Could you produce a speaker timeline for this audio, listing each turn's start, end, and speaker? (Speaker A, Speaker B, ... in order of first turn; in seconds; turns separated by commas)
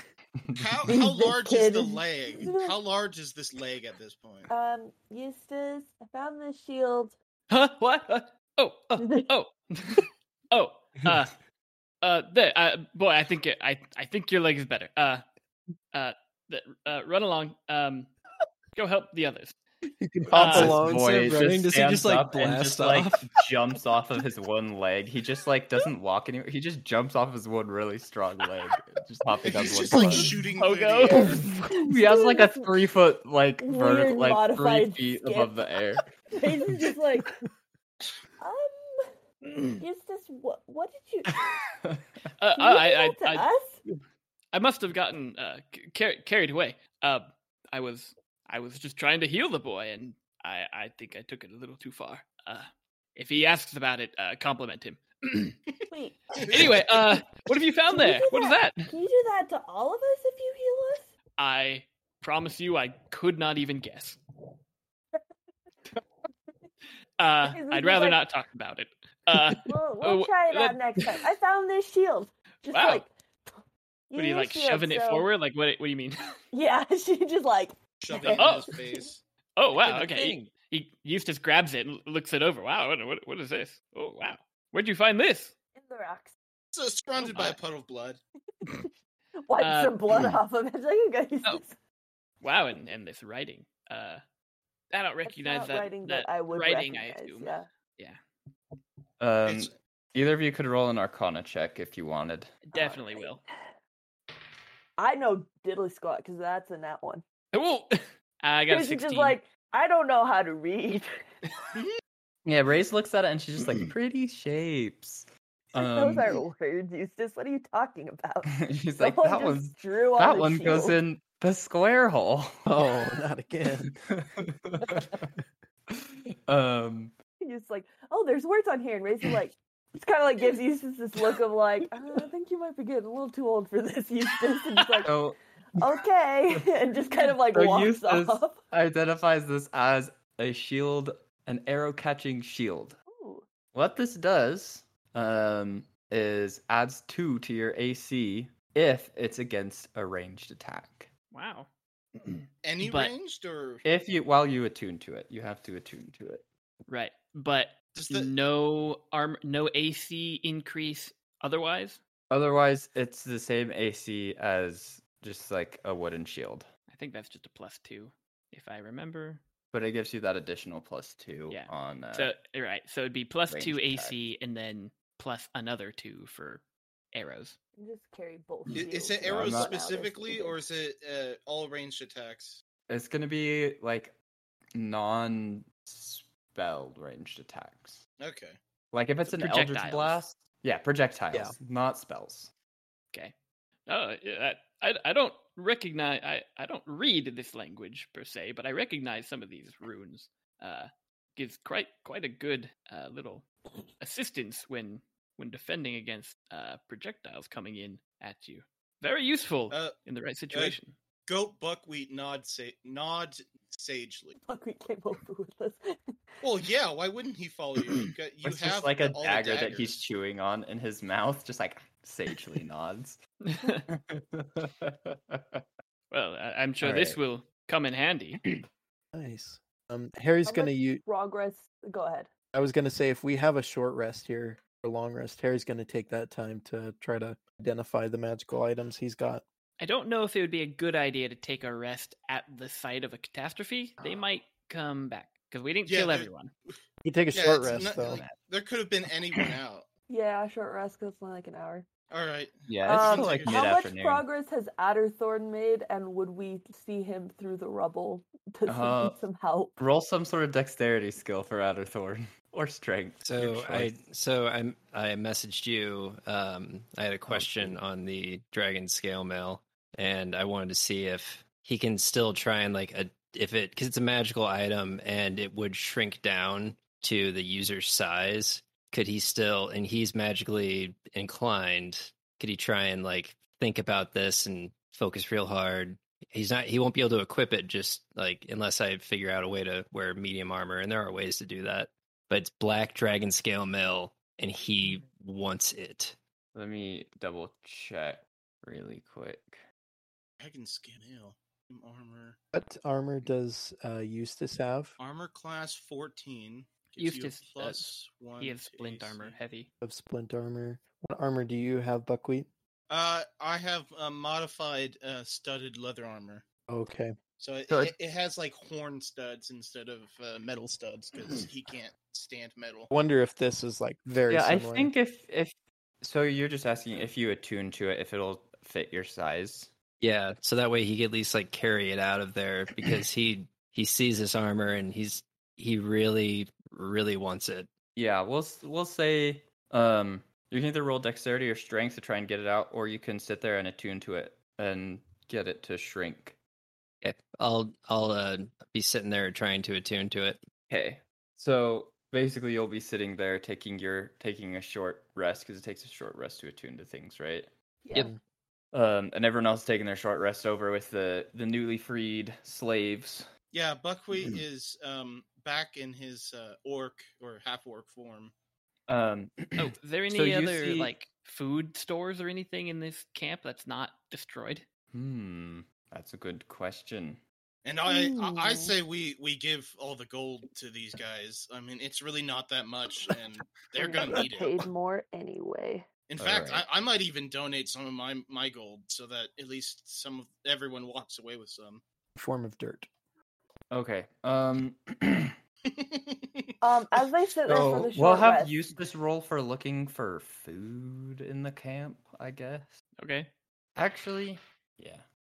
Speaker A: 0.6-4.5, Speaker B: 0.9-2.8, Speaker B: 4.5-7.2, Speaker C: 7.5-11.4, Speaker B: 9.0-9.3, Speaker C: 12.0-15.2, Speaker C: 15.9-18.1, Speaker C: 18.7-19.6, Speaker D: 20.0-21.2, Speaker C: 20.3-20.8, Speaker E: 20.3-30.3, Speaker F: 20.6-23.3, Speaker A: 29.4-31.4, Speaker C: 30.6-31.4, Speaker B: 31.1-32.8, Speaker D: 31.4-31.7, Speaker E: 31.7-36.0, Speaker B: 33.6-35.6, Speaker B: 36.4-37.4, Speaker B: 38.4-39.1, Speaker B: 39.8-41.3, Speaker E: 41.3-42.1, Speaker C: 42.4-43.5, Speaker B: 42.6-43.8, Speaker C: 44.5-55.6, Speaker B: 55.9-56.3, Speaker A: 56.4-56.9, Speaker C: 56.5-58.8, Speaker B: 57.9-61.1, Speaker C: 61.4-64.2, Speaker C: 67.2-70.8, Speaker B: 67.4-68.2, Speaker B: 69.7-73.6, Speaker C: 72.7-73.0, Speaker B: 74.1-75.3, Speaker C: 74.2-76.2, Speaker B: 76.5-79.1, Speaker A: 78.0-79.2, Speaker C: 78.2-78.7, Speaker C: 79.6-85.5, Speaker B: 85.8-86.3, Speaker A: 86.7-88.2, Speaker B: 87.2-87.5, Speaker B: 88.6-88.9, Speaker B: 89.5-91.8, Speaker C: 89.6-90.0, Speaker C: 92.4-94.2, Speaker C: 94.9-98.2, Speaker B: 95.3-97.7, Speaker E: 99.2-102.5, Speaker A: 99.5-99.7, Speaker C: 102.7-103.4, Speaker B: 102.7-103.7, Speaker B: 105.0-107.2, Speaker C: 107.5-109.4, Speaker B: 108.7-111.1, Speaker A: 111.8-112.0, Speaker E: 112.5-116.3, Speaker B: 115.8-121.0, Speaker E: 118.5-122.7, Speaker D: 122.7-124.0, Speaker E: 124.1-125.3, Speaker E: 125.9-127.1, Speaker B: 127.4-135.2, Speaker E: 135.0-135.4, Speaker B: 135.8-138.6, Speaker E: 137.2-143.0, Speaker B: 143.1-143.4, Speaker E: 143.7-151.1, Speaker C: 151.3-153.1, Speaker A: 152.6-153.8, Speaker E: 153.8-156.4, Speaker C: 156.9-162.0, Speaker A: 157.9-158.3, Speaker E: 162.3-166.7, Speaker C: 166.9-169.4, Speaker E: 169.7-172.3, Speaker C: 171.5-176.6, Speaker E: 173.5-174.2, Speaker C: 177.1-177.6, Speaker B: 177.8-180.6, Speaker A: 178.8-182.6, Speaker E: 179.2-179.7, Speaker E: 182.9-184.2, Speaker E: 184.8-188.0, Speaker A: 188.2-188.6, Speaker E: 188.9-192.5, Speaker C: 189.3-190.2, Speaker C: 193.9-203.5, Speaker C: 204.0-210.9, Speaker A: 210.5-214.3, Speaker B: 214.4-216.2, Speaker A: 216.4-220.0, Speaker E: 218.4-223.2, Speaker C: 223.4-223.9, Speaker E: 223.9-225.6, Speaker C: 226.1-228.4, Speaker E: 226.8-227.2, Speaker D: 229.1-231.0, Speaker B: 230.5-232.3, Speaker D: 232.5-239.4, Speaker C: 239.8-246.5, Speaker D: 244.0-244.3, Speaker A: 245.9-246.7, Speaker D: 247.0-248.2, Speaker A: 247.3-249.9, Speaker E: 247.7-248.4, Speaker B: 250.1-251.9, Speaker A: 252.1-253.8, Speaker E: 252.7-254.2, Speaker B: 252.9-259.8, Speaker E: 258.7-259.2, Speaker E: 259.8-263.9, Speaker F: 263.2-296.2, Speaker E: 267.3-267.8, Speaker E: 296.6-299.6, Speaker A: 300.4-302.4, Speaker D: 302.5-305.0, Speaker A: 305.0-309.4, Speaker C: 307.0-307.9, Speaker C: 308.4-309.7, Speaker D: 309.8-312.5, Speaker A: 312.9-316.4, Speaker D: 316.7-317.1, Speaker A: 317.4-322.9, Speaker E: 317.7-317.9, Speaker D: 322.9-324.9, Speaker E: 324.3-329.7, Speaker F: 330.0-337.7, Speaker E: 337.9-346.4, Speaker F: 347.0-350.4, Speaker E: 350.7-357.5, Speaker E: 358.7-363.3, Speaker A: 363.5-368.3, Speaker E: 368.9-370.9, Speaker C: 369.6-374.6, Speaker E: 374.9-377.2, Speaker A: 377.6-384.6, Speaker B: 377.9-378.8, Speaker B: 383.8-385.9, Speaker A: 386.1-391.8, Speaker E: 386.2-386.7, Speaker D: 392.2-392.9, Speaker E: 393.7-395.4, Speaker A: 395.7-396.5, Speaker B: 396.6-398.7, Speaker E: 397.4-402.8, Speaker C: 403.0-403.3, Speaker E: 403.8-405.1